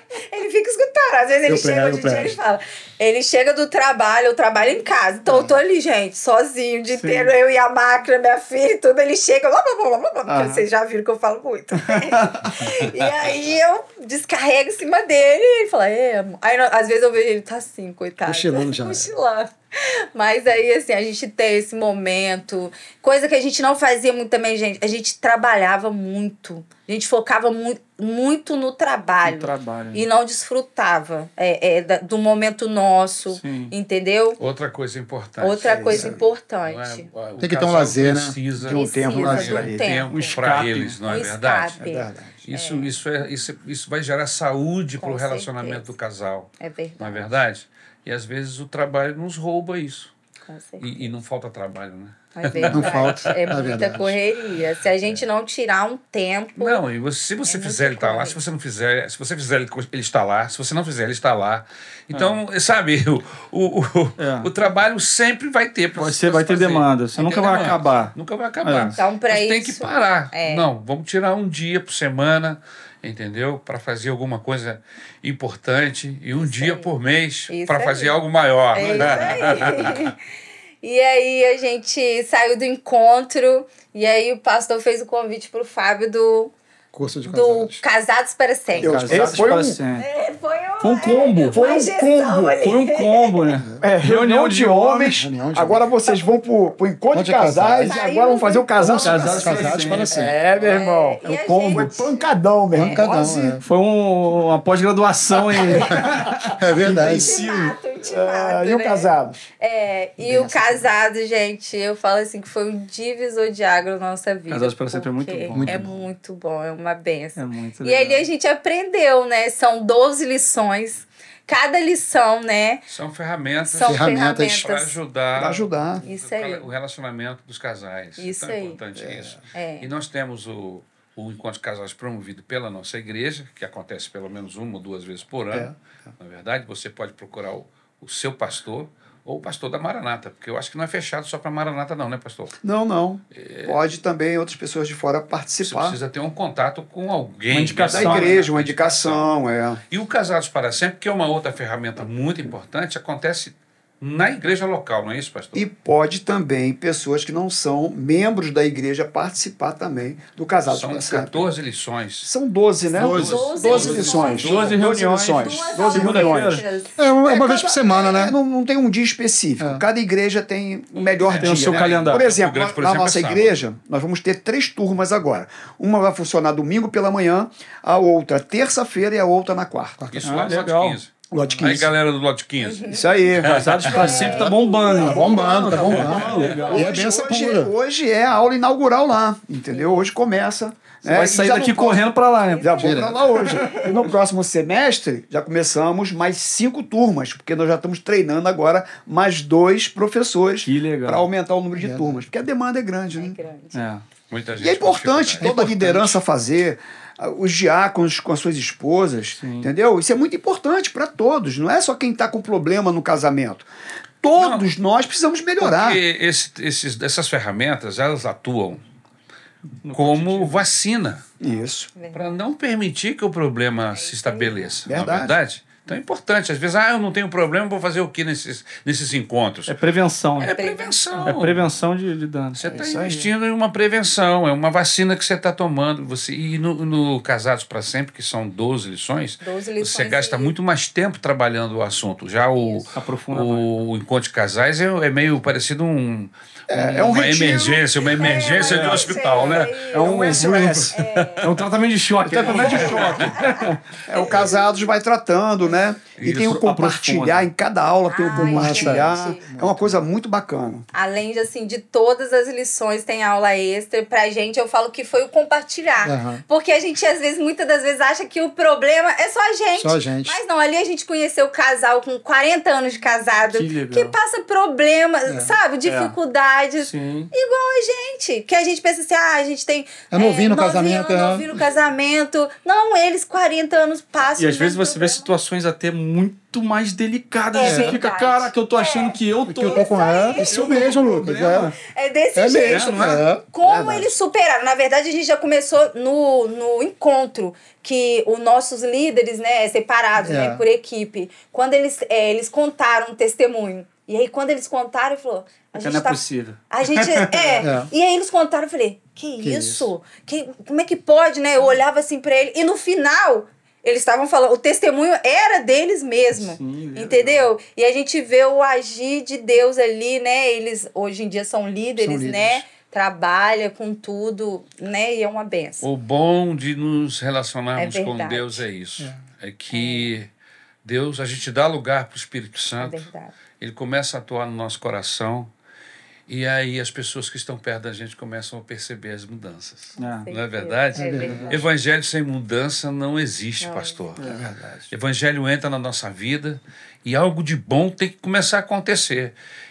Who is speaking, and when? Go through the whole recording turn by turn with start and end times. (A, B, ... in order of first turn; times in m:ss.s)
0:00.2-0:34.4 A
0:01.5-0:02.4 B
0:05.3-0:05.6 B
0:07.0-0:07.3 C
0:10.3-0:10.6 C
0:11.9-0:12.8 C
0:18.2-0:19.1 B
0:29.2-0:30.1 C
0:33.3-0:33.8 C
0:34.4-0:41.8 D
0:35.4-0:37.1 A
0:35.6-0:36.2 E
0:37.4-0:38.4 B
0:38.6-0:40.0 E
0:38.7-0:40.4 A
0:39.1-0:39.6 B
0:40.1-0:41.0 C
0:41.1-0:43.0 A
0:41.8-0:42.4 E
0:42.4-0:50.1 D
0:45.0-0:45.9 A
0:46.6-0:47.4 A
0:50.5-0:51.1 A
0:50.8-0:53.6 D
0:52.4-0:56.8 A
0:52.7-0:54.2 B
0:56.6-1:20.1 D
0:57.5-0:58.4 A
1:02.1-1:02.4 C
1:04.2-1:04.5 C
1:06.0-1:09.0 C
1:08.9-1:10.7 A
1:16.4-1:16.9 A
1:17.5-1:18.2 A
1:18.7-1:20.2 A
1:18.9-1:19.6 E
1:20.8-1:26.5 A
1:26.9-1:27.8 B
1:27.2-1:29.1 A
1:28.8-1:29.4 B
1:28.8-1:29.8 E
1:28.9-1:30.1 C
1:30.0-1:33.6 A
1:30.8-1:31.8 C
1:31.4-1:32.6 E
1:32.6-1:35.2 C
1:33.6-1:33.9 B
1:33.8-1:43.6 E
1:35.1-1:35.9 B
1:37.1-1:38.0 B
1:37.8-1:39.9 A
1:38.8-1:40.4 B
1:38.9-1:40.3 C
1:40.6-1:42.2 A
1:42.7-1:43.6 B
1:42.8-1:43.1 A
1:43.6-1:47.7 C
1:46.0-1:47.4 B
1:46.9-1:49.4 E
1:46.9-2:02.8 A
1:50.2-1:50.9 B
1:54.5-1:55.9 C
1:55.5-1:56.1 B
1:57.4-1:58.3 C
2:02.9-2:22.6 D
2:03.6-2:05.0 A
2:03.8-2:04.6 B
2:05.4-2:06.0 E
2:06.0-2:06.7 A
2:08.2-2:08.8 A
2:09.0-2:09.3 E
2:09.5-2:09.9 A
2:22.6-2:26.0 E
2:23.3-2:23.8 D
2:25.6-2:29.3 D
2:27.5-2:28.4 C
2:27.9-2:29.8 E
2:29.9-2:35.7 D
2:35.6-2:41.5 E
2:40.7-2:42.3 D
2:42.2-2:46.6 E
2:42.9-2:44.5 B
2:43.0-2:44.8 D
2:43.0-2:47.0 A
2:43.7-2:46.6 C
2:47.0-2:48.4 B
2:47.2-3:00.1 E
2:51.2-2:53.6 D
2:51.3-2:52.3 C
3:00.0-3:00.5 B
3:00.1-3:04.5 D
3:00.2-3:01.0 C
3:01.3-3:01.9 B
3:01.3-3:01.9 E
3:02.6-3:06.9 A
3:02.9-3:12.1 E
3:03.4-3:06.9 C
3:05.0-3:07.7 B
3:05.8-3:06.2 D
3:09.7-3:10.1 A
3:11.0-3:12.8 C
3:12.5-3:14.1 A
3:12.6-3:23.4 E
3:12.8-3:13.2 B
3:20.6-3:21.3 C
3:21.8-3:22.2 B
3:23.2-3:23.9 A
3:23.7-3:24.0 C
3:24.3-3:25.6 D
3:24.6-3:33.7 E
3:25.4-3:26.2 B
3:29.4-3:29.7 C
3:34.2-3:36.0 E
3:34.3-3:34.7 D
3:35.6-3:38.8 D
3:39.8-3:40.6 C
3:39.9-3:41.2 D
3:41.4-3:41.9 E
3:42.0-3:42.4 A
3:42.1-3:49.8 D
3:43.9-3:44.8 A
3:44.9-3:45.3 E
3:49.7-3:50.6 C
3:50.4-3:51.4 A
3:50.4-3:51.7 D
3:51.2-3:52.8 C
3:52.6-4:11.0 D
3:52.7-3:53.3 E
3:59.4-4:00.6 A
4:02.5-4:02.9 A
4:03.0-4:03.7 C
4:06.7-4:08.0 E
4:08.0-4:11.6 A
4:08.4-4:14.0 C
4:10.0-4:11.0 E
4:12.2-4:20.9 E
4:12.4-4:14.9 A
4:12.6-4:13.3 D
4:16.2-4:16.6 D
4:16.5-4:17.5 C
4:18.1-4:19.4 A
4:18.4-4:20.0 B
4:20.9-4:45.3 A
4:26.0-4:26.4 B
4:29.8-4:30.4 B
4:33.5-4:34.2 C
4:35.3-4:35.6 B
4:35.8-4:36.2 C
4:36.8-4:37.3 C
4:40.1-4:41.5 B
4:44.4-4:51.7 C
4:47.5-4:51.0 A
4:47.6-4:48.0 B
4:49.4-4:51.8 B
4:51.9-5:25.9 A
4:52.4-4:53.4 B
4:52.7-4:53.2 C
4:53.6-4:54.2 E
5:00.2-5:00.6 B
5:05.8-5:07.7 C
5:07.6-5:07.9 B
5:09.4-5:09.9 B
5:16.4-5:17.5 C
5:22.0-5:22.6 B
5:25.8-5:30.3 D
5:27.8-5:28.6 A
5:29.7-5:30.1 A
5:30.8-5:33.1 D
5:32.8-5:33.4 A
5:33.6-5:35.5 D
5:36.3-5:44.3 D
5:40.0-5:40.3 C
5:40.0-5:41.7 A
5:41.0-5:41.6 B
5:43.6-5:44.0 A
5:44.2-5:44.6 C
5:44.9-5:49.3 D